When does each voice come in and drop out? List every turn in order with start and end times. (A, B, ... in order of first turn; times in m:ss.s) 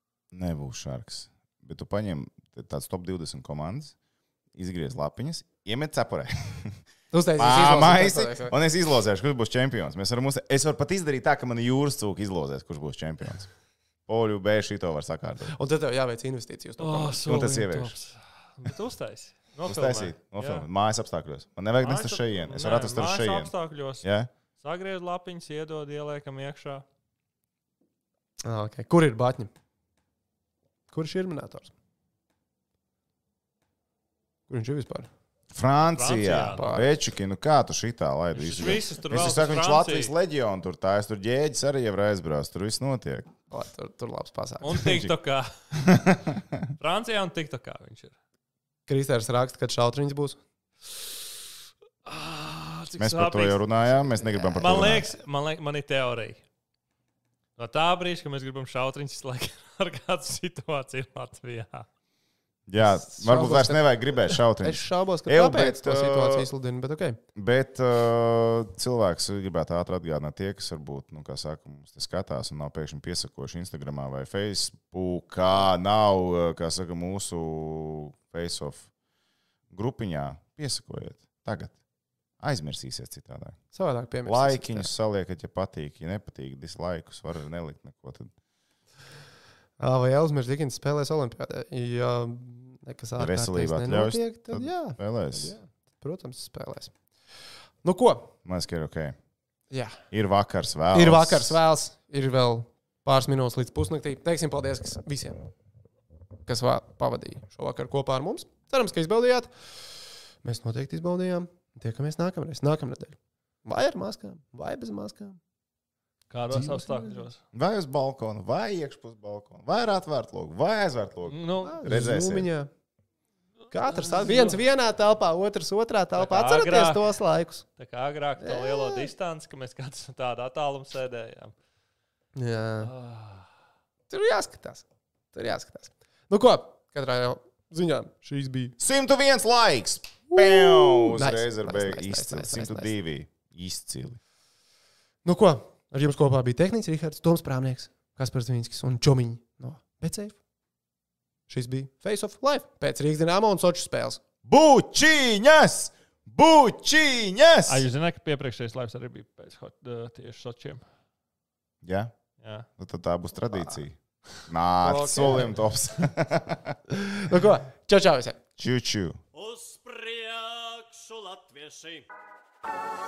0:00.3-0:03.9 A
0:04.6-0:06.8 A
0:07.1-0:08.5 B
0:07.4-0:13.5 A
0:14.1-0:15.5 A
0:15.5-0:17.2 B
0:16.8-0:20.7 C
0:17.2-0:18.0 A
0:19.7-0:23.5 A
0:21.8-0:24.1 C
0:24.0-0:24.3 A
0:24.6-0:26.8 C
0:28.4-0:29.5 B
0:30.9-0:31.7 B
0:34.5-0:35.1 B
0:35.5-0:43.3 A
0:36.0-0:36.9 C
0:36.5-0:36.9 B
0:38.3-0:40.1 C
0:43.5-0:45.0 B
0:44.6-0:45.5 C
0:44.8-0:45.1 A
0:45.8-0:46.7 A
0:46.8-0:48.2 C
0:48.9-0:50.4 B
0:52.0-0:53.6 C
0:53.0-0:55.1 A
0:54.1-0:55.0 B
0:54.6-0:56.4 C
0:57.6-1:01.9 C
1:02.7-1:06.5 A
1:02.8-1:07.2 B
1:07.4-1:18.9 A
1:19.7-1:21.7 A
1:22.4-1:23.6 A
1:23.7-1:24.9 B
1:24.3-1:28.3 A
1:29.8-1:36.9 B
1:33.2-1:35.6 A
1:37.8-1:38.3 B
1:38.4-1:39.2 A
1:39.7-1:40.0 B
1:40.1-1:41.6 A
1:40.9-1:45.5 B
1:46.5-1:49.8 B
1:50.4-1:55.4 B
1:56.3-1:57.4 C
1:56.5-1:57.3 B
1:57.5-2:02.5 A
2:01.3-2:01.9 C
2:01.6-2:02.7 B
2:03.7-2:07.6 B
2:03.9-2:04.6 C
2:06.2-2:07.1 C
2:07.8-2:11.6 C
2:08.4-2:09.1 B
2:12.4-2:12.9 B
2:12.8-2:13.5 C
2:14.1-2:18.8 B
2:18.8-2:24.2 A
2:20.3-2:22.9 B
2:25.2-2:30.4 B
2:31.5-2:34.2 B
2:34.4-2:37.9 A
2:37.7-2:40.8 C
2:41.8-2:42.1 A
2:42.4-2:42.7 C
2:42.8-2:46.8 A
2:44.8-2:45.5 B
2:47.0-2:48.4 B
2:48.6-2:49.2 A
2:49.3-2:52.1 D